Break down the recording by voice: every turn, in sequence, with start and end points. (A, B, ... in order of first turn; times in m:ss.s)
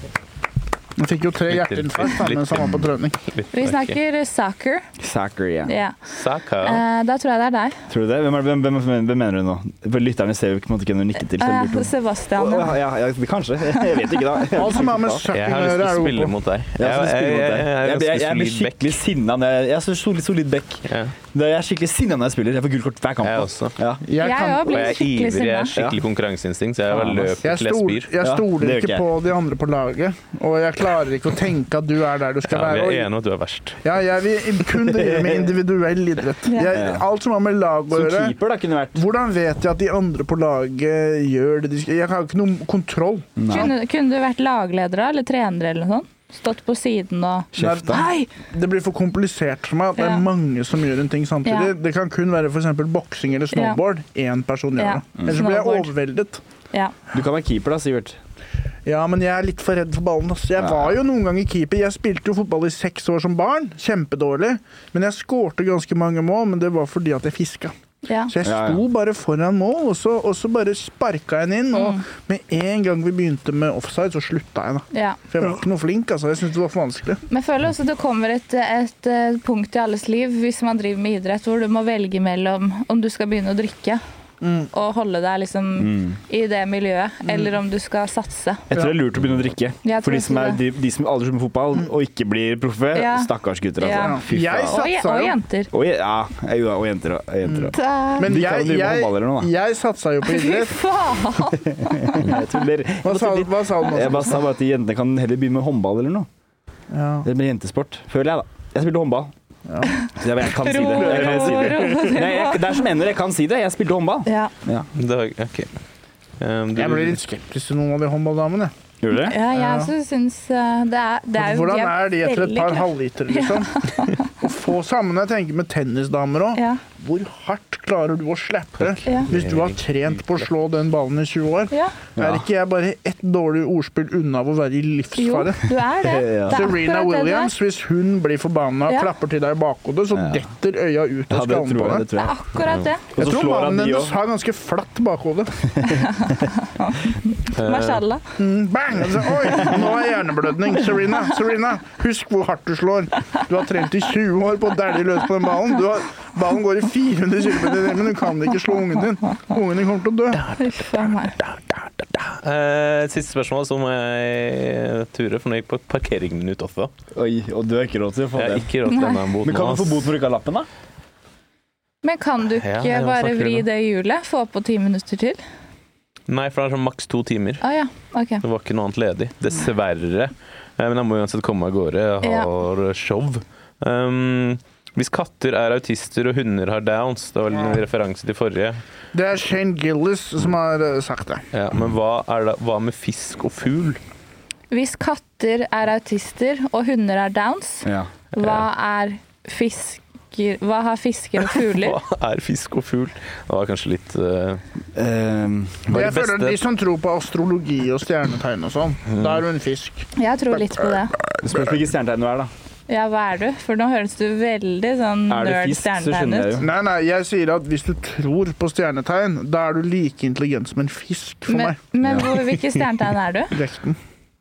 0:01.0-0:03.2 A
0:01.5-0:04.0 B
0:03.5-0:04.9 C
0:05.0-0:05.7 D
0:05.6-0:06.0 C
0:06.1-0:06.8 B
0:06.6-0:07.8 C
0:07.9-0:15.2 D
0:11.2-0:12.8 C
0:14.5-0:16.3 A
0:15.3-0:19.0 B
0:16.8-0:24.0 D
0:20.9-0:21.2 B
0:23.2-0:23.8 B
0:24.0-0:24.9 A
0:24.2-0:25.8 C
0:24.6-0:28.1 B
0:25.8-0:26.0 D
0:26.9-0:27.4 D
0:27.4-0:33.1 A
0:28.2-0:29.0 D
0:32.5-0:33.8 B
0:33.8-0:38.4 A
0:34.8-0:35.5 D
0:36.7-0:37.0 D
0:37.9-0:39.0 D
0:38.9-0:43.6 A
0:43.4-0:43.7 D
0:43.5-0:48.3 C
0:47.5-0:48.0 D
0:47.6-0:56.4 A
0:50.0-0:50.2 C
0:51.4-0:51.7 C
0:53.5-0:53.8 C
0:54.8-0:55.9 C
0:57.1-0:58.2 D
0:58.8-1:07.7 A
1:00.6-1:00.9 D
1:08.0-1:08.3 C
1:08.3-1:17.2 A
1:08.4-1:08.8 D
1:11.7-1:12.0 C
1:14.9-1:15.2 C
1:17.3-1:24.0 C
1:24.4-1:24.7 A
1:24.7-1:28.6 C
1:25.8-1:26.2 D
1:27.2-1:27.5 A
1:28.7-1:34.8 D
1:28.7-1:29.0 A
1:29.8-1:30.6 C
1:32.9-1:35.7 C
1:33.9-1:35.4 A
1:35.7-1:39.5 D
1:37.4-1:40.8 A
1:37.7-1:38.3 C
1:40.2-1:42.4 C
1:41.5-1:46.3 D
1:43.0-1:44.4 A
1:46.9-1:47.3 A
1:47.2-1:49.3 D
1:49.7-1:49.9 A
1:49.8-1:52.8 C
1:50.2-1:54.9 D
1:50.9-1:51.4 A
1:54.2-1:54.5 C
1:55.0-1:55.7 B
1:56.4-1:57.2 B
1:56.7-1:58.7 A
1:59.0-1:59.4 D
1:59.1-2:04.3 C
1:59.5-1:59.9 A
2:01.4-2:03.7 A
2:04.3-2:15.7 A
2:06.5-2:06.8 C
2:08.9-2:09.8 B
2:12.2-2:12.4 D
2:15.2-2:17.5 C
2:16.0-2:16.7 D
2:16.5-2:22.0 A
2:20.1-2:20.4 D
2:21.3-2:22.4 D
2:22.2-2:23.0 C
2:23.1-2:24.1 D
2:23.1-2:25.6 A
2:25.7-2:26.4 D
2:26.0-2:28.2 C
2:27.5-2:28.0 B
2:28.4-2:40.4 A
2:40.4-2:46.9 B
2:40.6-2:41.4 C
2:47.1-2:50.7 D
2:48.3-2:50.1 B
2:48.9-2:49.2 C
2:52.0-2:55.4 C
2:52.6-2:53.6 B
2:56.3-2:57.6 B
2:57.6-2:58.4 C
2:58.4-3:08.8 B
3:02.2-3:02.5 C
3:07.5-3:07.8 A
3:09.1-3:11.4 A
3:11.5-3:14.0 B
3:14.7-3:22.0 C
3:17.8-3:18.1 D
3:21.5-3:24.6 B
3:24.9-3:26.1 D
3:25.9-3:31.8 A
3:25.9-3:26.6 B
3:29.1-3:29.4 B
3:30.2-3:31.1 C
3:31.4-3:32.5 D
3:32.9-3:36.6 C
3:35.3-3:36.7 D
3:36.6-3:41.8 A
3:41.5-3:43.5 C
3:42.0-3:42.3 D
3:43.5-3:44.0 A